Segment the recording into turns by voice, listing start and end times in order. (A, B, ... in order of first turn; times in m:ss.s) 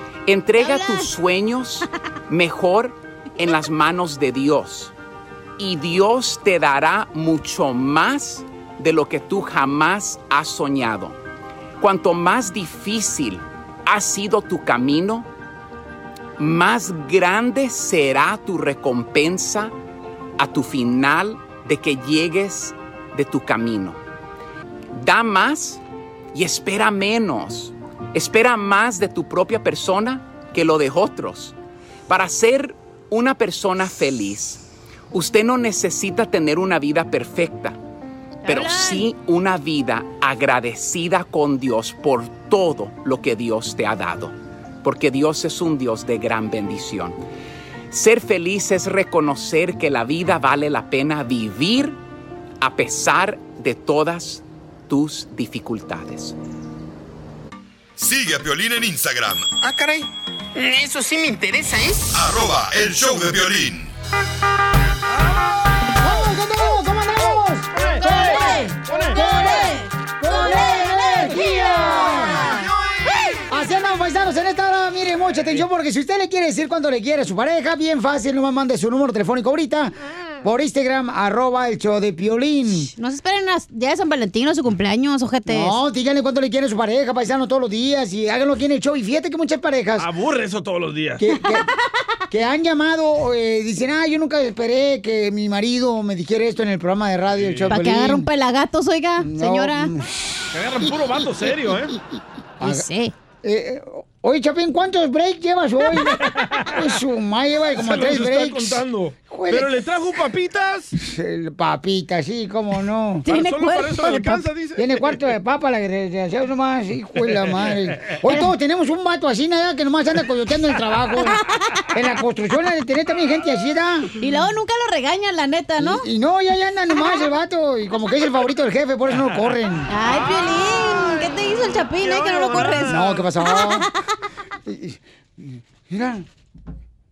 0:00.3-0:04.9 A
0:00.6-0:01.2 B
0:05.6-0:11.2 A
0:11.8-0:15.3 A
0:16.4-0:19.7 A
0:20.4-0:24.0 A
0:24.9-0:25.8 A
0:26.3-0:31.6 A
0:32.1-0:37.8 A
0:38.4-0:39.1 B
0:38.5-0:47.2 A
0:47.9-0:52.0 A
0:52.6-0:56.4 A
0:58.0-0:59.5 C
0:59.6-1:02.2 D
1:02.1-1:03.9 C
1:06.0-1:12.5 E
1:07.8-1:09.2 F
1:08.0-1:12.7 B
1:13.5-1:22.9 E
1:22.9-1:25.8 B
1:25.5-1:30.1 E
1:30.0-1:31.3 F
1:31.2-1:31.7 E
1:32.3-1:38.3 E
1:37.3-1:37.7 F
1:37.7-1:39.9 B
1:39.2-1:42.0 E
1:40.5-1:42.0 F
1:42.6-1:42.9 E
1:42.6-1:43.1 B
1:43.4-1:49.7 E
1:46.2-1:46.7 F
1:47.8-1:50.9 F
1:50.9-1:53.3 E
1:53.3-1:54.5 B
1:53.3-1:55.2 F
1:54.8-2:01.4 E
2:01.9-2:04.1 E
2:04.2-2:06.0 B
2:05.8-2:09.9 E
2:09.9-2:13.9 B
2:10.1-2:13.2 F
2:12.9-2:13.9 E
2:14.7-2:16.2 E